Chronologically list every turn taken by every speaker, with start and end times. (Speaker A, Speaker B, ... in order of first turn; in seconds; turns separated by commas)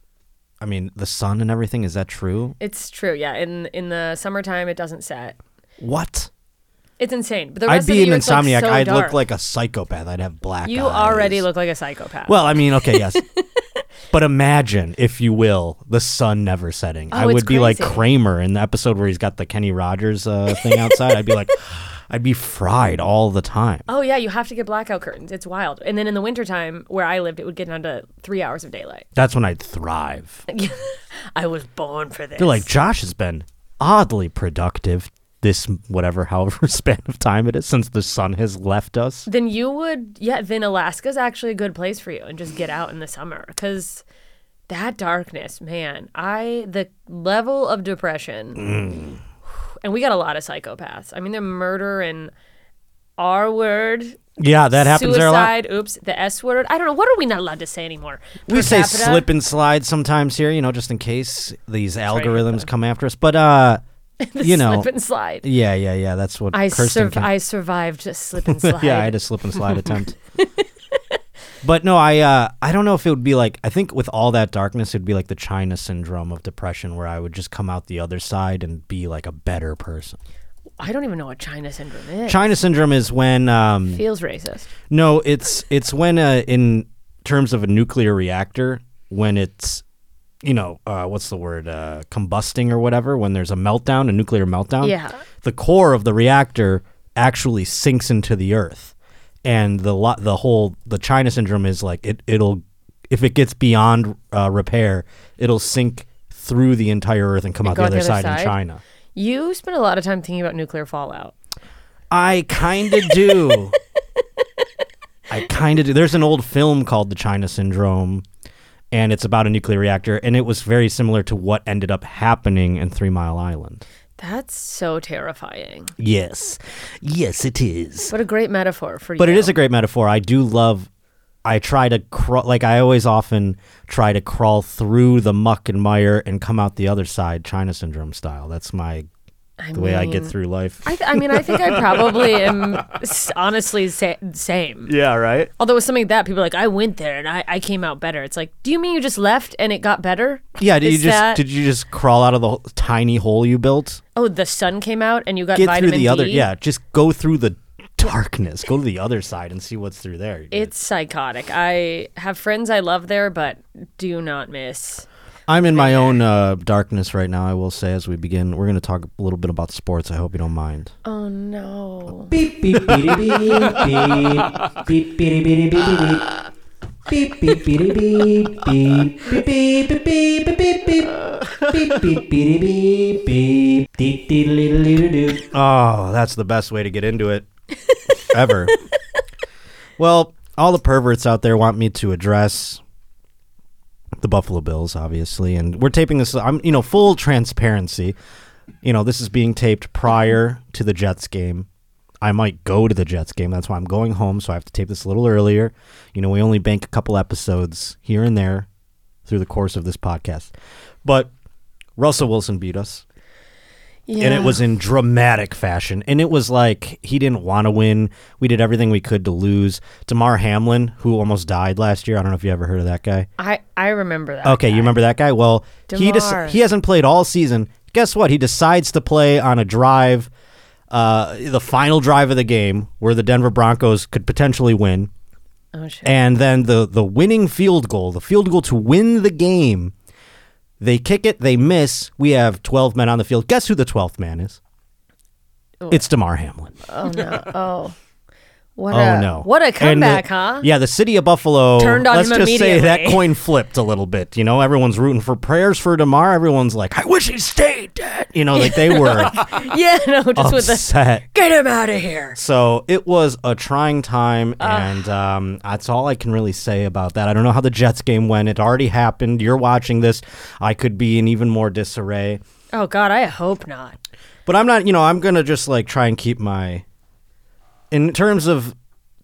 Speaker A: 0.6-2.5, Speaker B: 2.6-5.4, Speaker A: 5.8-6.3, Speaker B: 7.0-9.2, Speaker A: 7.6-11.4, Speaker B: 10.6-13.6, Speaker A: 12.3-13.2, Speaker A: 14.1-23.9, Speaker B: 17.1-18.0, Speaker B: 20.6-21.0, Speaker B: 23.9-29.1, Speaker A: 29.1-30.4, Speaker B: 30.5-32.7, Speaker A: 32.4-39.3, Speaker B: 39.3-44.0, Speaker B: 44.7-48.7, Speaker A: 48.5-49.2, Speaker B: 49.8-52.3, Speaker B: 53.2-59.3, Speaker A: 54.4-55.5, Speaker A: 58.5-63.8, Speaker B: 62.1-62.7, Speaker B: 64.2-65.4, Speaker A: 64.4-64.9, Speaker A: 65.4-67.3, Speaker B: 66.5-69.2, Speaker A: 68.4-70.2, Speaker A: 71.6-80.2, Speaker B: 80.8-82.5, Speaker A: 82.3-84.0, Speaker B: 83.9-84.7, Speaker A: 84.9-89.8, Speaker A: 90.4-108.8, Speaker B: 94.8-95.2, Speaker B: 107.6-108.5, Speaker B: 109.1-111.3, Speaker A: 112.1-113.7, Speaker B: 113.0-113.6, Speaker A: 115.3-118.2, Speaker A: 118.9-123.8, Speaker B: 124.2-125.9, Speaker A: 126.0-128.1, Speaker B: 128.1-129.6, Speaker A: 129.2-130.9, Speaker A: 131.4-139.1, Speaker B: 139.6-144.9, Speaker A: 139.7-142.8, Speaker A: 144.9-145.5, Speaker B: 145.6-151.4, Speaker A: 150.6-154.0, Speaker B: 154.1-156.4, Speaker A: 155.5-160.7, Speaker B: 160.5-165.1, Speaker A: 165.5-170.9, Speaker B: 165.7-166.2, Speaker B: 171.0-172.4, Speaker C: 172.3-176.2, Speaker A: 172.7-174.3, Speaker C: 177.1-181.1, Speaker A: 177.5-178.1, Speaker A: 181.0-182.2, Speaker C: 181.7-185.4, Speaker A: 185.5-187.5, Speaker A: 188.2-188.8, Speaker A: 190.0-192.8, Speaker A: 194.2-198.2, Speaker A: 198.8-201.7, Speaker A: 202.2-208.7, Speaker A: 209.2-210.5, Speaker A: 211.0-211.3, Speaker A: 212.0-213.0, Speaker B: 214.1-214.6, Speaker A: 214.2-223.3, Speaker B: 223.4-224.9, Speaker A: 224.4-230.3, Speaker B: 225.9-226.6, Speaker A: 230.9-235.1, Speaker B: 235.7-236.1, Speaker A: 236.0-239.9, Speaker A: 240.8-244.6, Speaker A: 245.9-246.8, Speaker B: 246.8-247.9, Speaker B: 248.8-250.7, Speaker A: 248.9-259.6, Speaker B: 251.8-253.3, Speaker B: 258.5-262.4, Speaker A: 260.4-261.2, Speaker A: 262.4-272.4, Speaker B: 264.6-265.0, Speaker B: 272.7-274.0, Speaker A: 274.4-276.8, Speaker A: 277.9-278.7